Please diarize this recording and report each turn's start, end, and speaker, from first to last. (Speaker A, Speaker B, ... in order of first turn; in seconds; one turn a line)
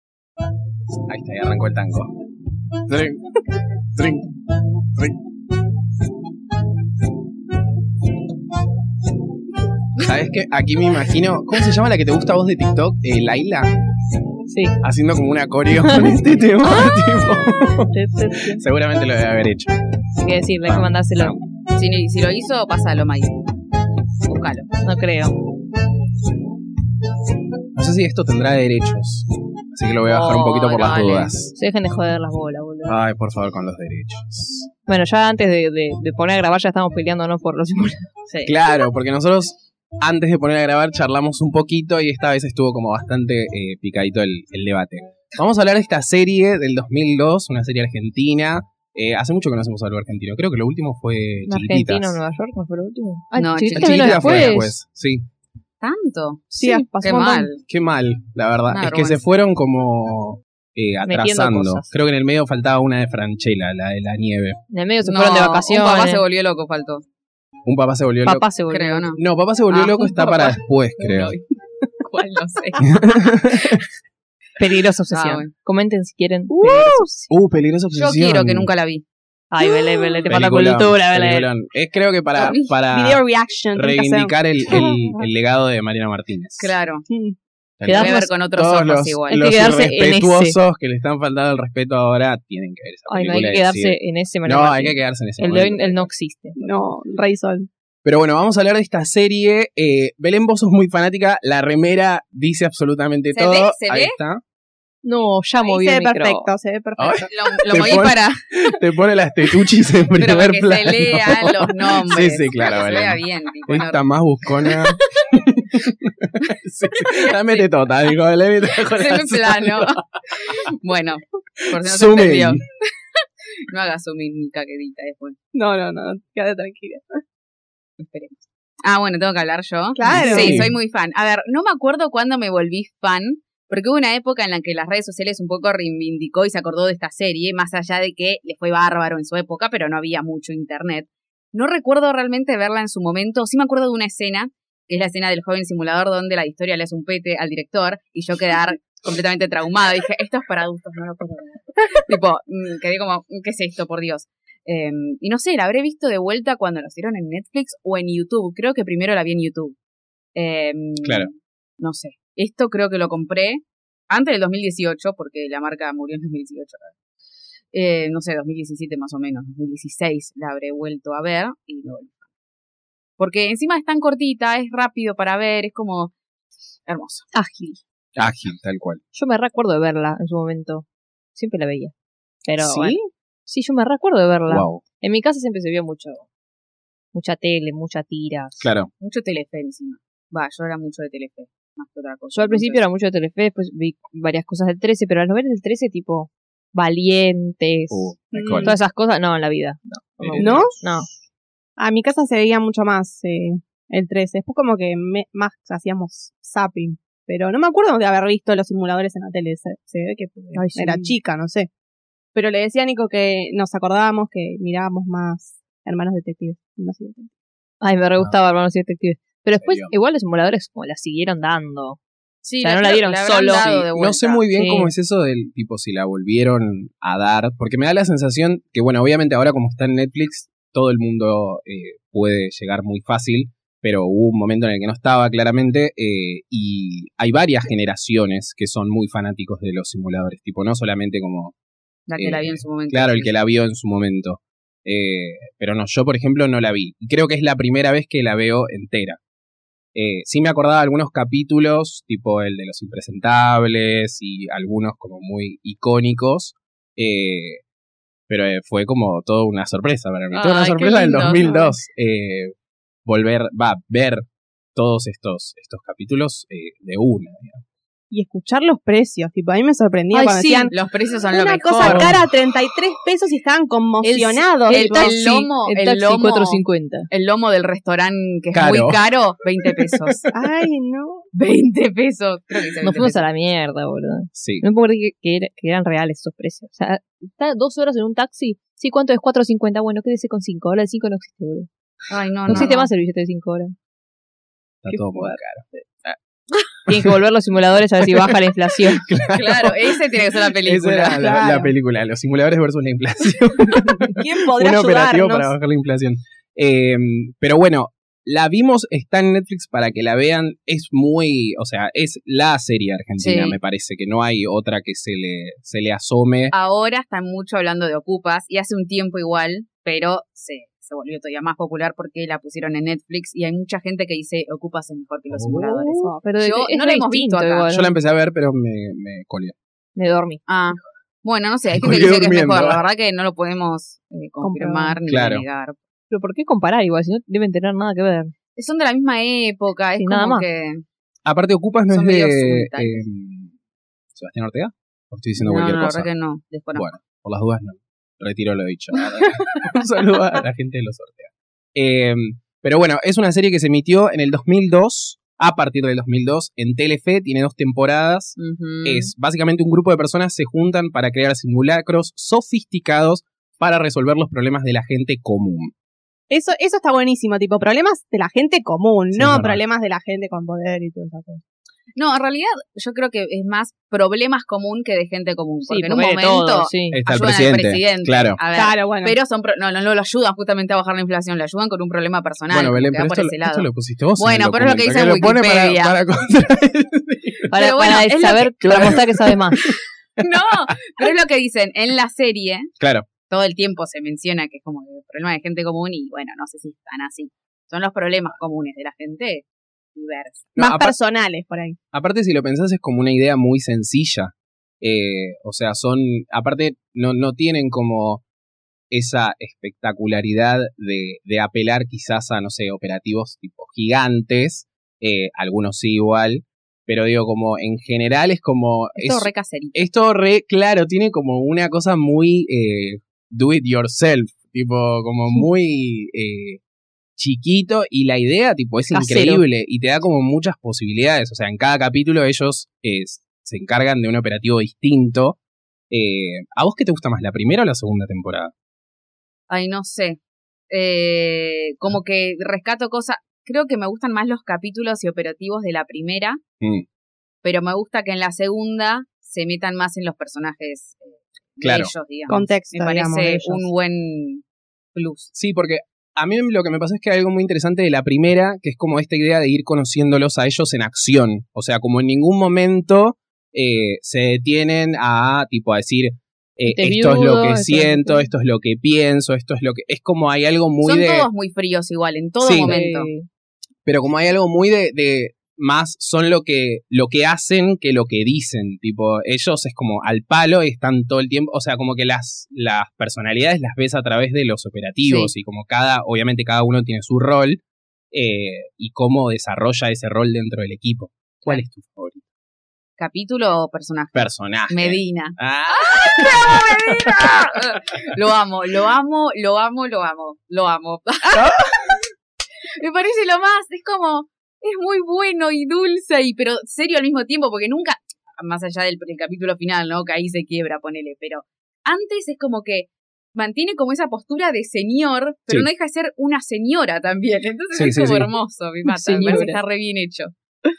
Speaker A: 1.1-2.1
Speaker A: 2.8-3.3
Speaker A: 3.9-4.3
Speaker A: 10.0-13.7
Speaker B: 14.5-14.8
Speaker A: 14.8-19.7
Speaker B: 15.8-17.1
Speaker B: 17.9-18.6
Speaker B: 20.2-21.4
Speaker A: 20.6-21.4
Speaker C: 21.7-23.3
Speaker C: 24.2-24.7
Speaker B: 24.8-25.4
Speaker A: 27.7-31.5
Speaker C: 30.0-31.3
Speaker B: 31.5-32.9
Speaker A: 32.8-34.7
Speaker B: 34.9-38.5
Speaker A: 38.4-52.2
Speaker B: 51.5-54.7
Speaker C: 53.4-54.6
Speaker A: 53.7-55.2
Speaker C: 55.8-57.6
Speaker D: 56.6-57.5
Speaker B: 56.6-56.9
Speaker A: 57.6-64.6
Speaker C: 58.7-59.2
Speaker B: 61.1-61.9
Speaker B: 64.7-66.2
Speaker C: 65.0-67.0
Speaker A: 67.7-68.5
Speaker B: 68.2-69.1
Speaker C: 68.7-71.4
Speaker A: 69.2-71.3
Speaker C: 72.0-72.9
Speaker A: 72.8-73.8
Speaker B: 74.6-77.3
Speaker C: 75.1-75.5
Speaker D: 76.5-77.1
Speaker A: 77.3-78.7
Speaker C: 77.9-79.0
Speaker B: 79.5-81.5
Speaker D: 79.7-80.2
Speaker A: 80.3-86.7
Speaker C: 82.4-82.7
Speaker D: 82.9-85.2
Speaker C: 86.6-87.1
Speaker D: 87.1-87.3
Speaker A: 87.8-96.1
Speaker B: 87.8-88.3
Speaker C: 87.9-89.9
Speaker B: 89.3-90.6
Speaker B: 93.1-96.6
Speaker D: 96.6-97.7
Speaker A: 98.0-104.4
Speaker C: 103.3-104.2
Speaker B: 105.0-106.5
Speaker D: 105.6-107.3
Speaker A: 107.0-120.0
Speaker C: 107.2-108.4
Speaker C: 110.1-114.0
Speaker C: 114.6-115.3
Speaker C: 117.0-117.7
Speaker C: 118.8-125.3
Speaker A: 121.6-122.6
Speaker D: 125.5-127.2
Speaker C: 128.0-159.8
Speaker D: 129.9-130.7
Speaker A: 130.0-130.7
Speaker C: 160.3-166.9
Speaker A: 161.0-161.3
Speaker C: 167.7-172.2
Speaker C: 173.2-176.1
Speaker C: 176.9-177.3
Speaker B: 177.3-177.8
Speaker A: 178.2-179.0
Speaker B: 179.1-181.9
Speaker B: 182.4-186.2
Speaker A: 182.6-183.0
Speaker A: 184.5-184.8
Speaker B: 187.1-188.7
Speaker A: 188.6-188.9
Speaker C: 189.0-192.8
Speaker B: 192.3-198.1
Speaker A: 197.9-198.7
Speaker C: 198.3-198.8
Speaker D: 198.3-198.6
Speaker B: 198.6-201.1
Speaker A: 200.2-201.0
Speaker D: 200.4-200.7
Speaker D: 201.8-211.7
Speaker B: 210.5-211.1
Speaker D: 212.3-217.3
Speaker B: 217.8-222.0
Speaker A: 219.5-219.9
Speaker C: 222.4-224.4
Speaker B: 222.6-223.7
Speaker A: 223.5-241.5
Speaker B: 224.5-224.9
Speaker C: 242.1-243.3
Speaker A: 242.2-249.2
Speaker A: 249.9-257.6
Speaker A: 258.3-262.5
Speaker C: 260.3-261.7
Speaker A: 263.0-267.6
Speaker D: 268.1-270.7
Speaker B: 270.1-270.7
Speaker C: 270.7-272.1
Speaker D: 271.3-275.2
Speaker A: 271.9-272.2
Speaker B: 274.0-277.1
Speaker C: 274.7-280.2
Speaker A: 278.5-279.0
Speaker A: 279.9-280.2
Speaker D: 280.3-281.2
Speaker C: 281.3-283.2
Speaker B: 282.8-291.7
Speaker A: 284.3-284.6
Speaker C: 292.1-292.9
Speaker B: 292.5-293.7
Speaker A: 294.8-296.1
Speaker B: 294.9-295.8
Speaker A: 296.9-297.1
Speaker B: 296.9-299.1
Speaker A: 298.0-298.3
Speaker A: 298.9-299.9
Speaker C: 299.3-301.3
Speaker A: 300.6-316.5
Speaker D: 301.2-301.7
Speaker D: 304.1-305.5
Speaker C: 313.2-313.6
Speaker C: 316.5-327.7
Speaker A: 325.3-325.9
Speaker B: 325.9-327.9
Speaker A: 327.7-329.5
Speaker B: 329.9-330.4
Speaker C: 330.5-335.8
Speaker A: 331.7-332.8
Speaker D: 334.4-335.0
Speaker A: 335.1-335.4
Speaker B: 336.1-338.3
Speaker C: 338.6-340.8
Speaker B: 340.0-340.4
Speaker A: 341.2-343.5
Speaker C: 341.9-343.0
Speaker A: 344.1-346.1
Speaker C: 345.4-346.9
Speaker A: 346.7-365.7
Speaker C: 358.4-359.1
Speaker D: 366.3-371.4
Speaker A: 369.1-369.6
Speaker C: 371.9-386.0
Speaker B: 375.7-377.0
Speaker A: 376.9-378.4
Speaker D: 378.5-379.1
Speaker A: 382.5-387.5
Speaker B: 387.5-389.6
Speaker C: 387.5-388.9
Speaker A: 388.6-390.8
Speaker C: 390.2-392.7
Speaker A: 392.8-393.1
Speaker C: 393.3-400.5
Speaker A: 400.6-400.9
Speaker D: 400.6-401.8
Speaker A: 401.9-408.2
Speaker A: 408.9-426.6
Speaker C: 418.9-419.8
Speaker A: 427.2-435.4
Speaker B: 428.9-429.4
Speaker A: 435.9-438.5
Speaker C: 439.5-440.2
Speaker C: 440.7-446.4
Speaker C: 447.4-454.4
Speaker A: 451.6-451.9
Speaker D: 452.3-453.7
Speaker C: 454.9-455.3
Speaker A: 455.3-471.3
Speaker B: 466.7-468.3
Speaker C: 470.8-473.1
Speaker A: 472.4-472.8
Speaker B: 472.6-473.3
Speaker A: 473.9-492.2
Speaker C: 485.0-485.3
Speaker C: 493.0-501.9
Speaker A: 494.1-497.6
Speaker A: 501.3-502.0
Speaker C: 502.8-520.3
Speaker A: 517.7-518.3
Speaker B: 518.9-519.6